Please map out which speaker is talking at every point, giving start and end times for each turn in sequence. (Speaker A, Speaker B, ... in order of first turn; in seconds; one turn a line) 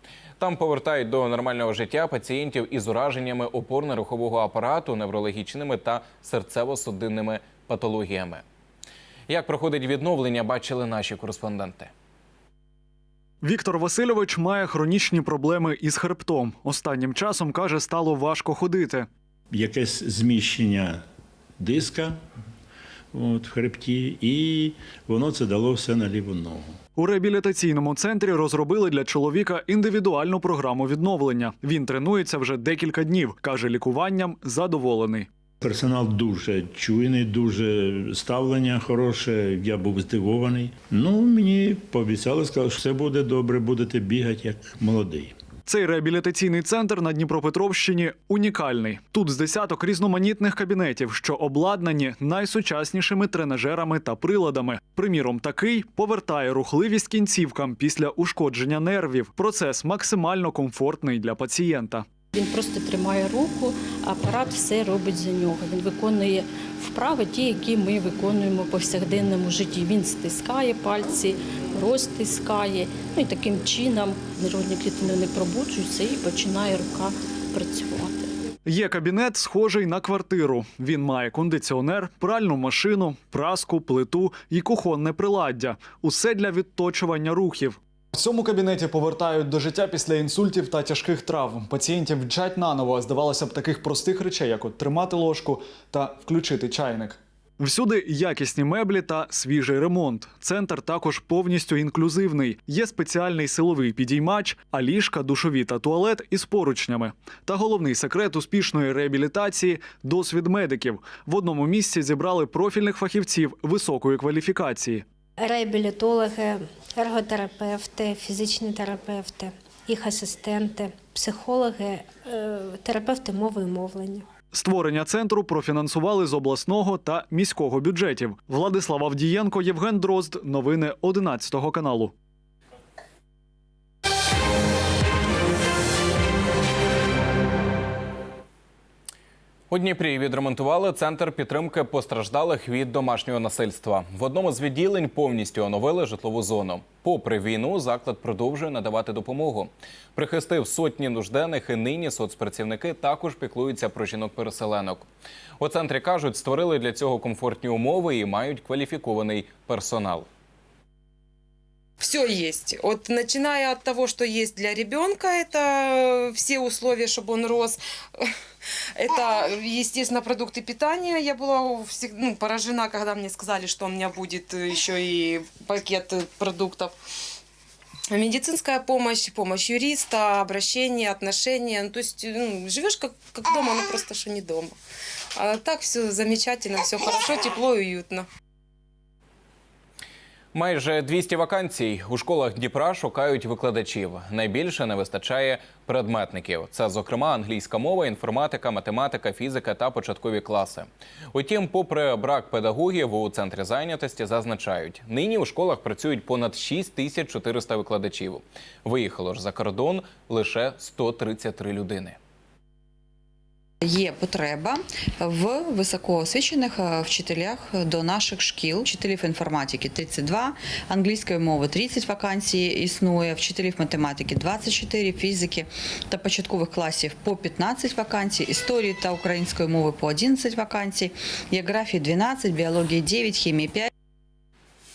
Speaker A: 0.4-8.4
Speaker A: 9.3-11.9
Speaker B: 13.4-19.1
Speaker C: 19.5-21.0
Speaker C: 21.6-22.2
Speaker C: 23.1-26.8
Speaker B: 27.0-35.3
Speaker C: 35.6-45.3
Speaker B: 45.7-62.0
Speaker D: 62.3-78.3
Speaker B: 78.7-115.0
Speaker E: 115.4-124.3
Speaker B: 124.5-132.1
Speaker A: 139.7-155.1
Speaker A: 155.6-160.3
Speaker F: 162.0-168.3
Speaker F: 168.9-176.9
Speaker F: 178.1-184.8
Speaker F: 185.3-188.2
Speaker A: 190.5-212.2
Speaker G: 213.8-233.9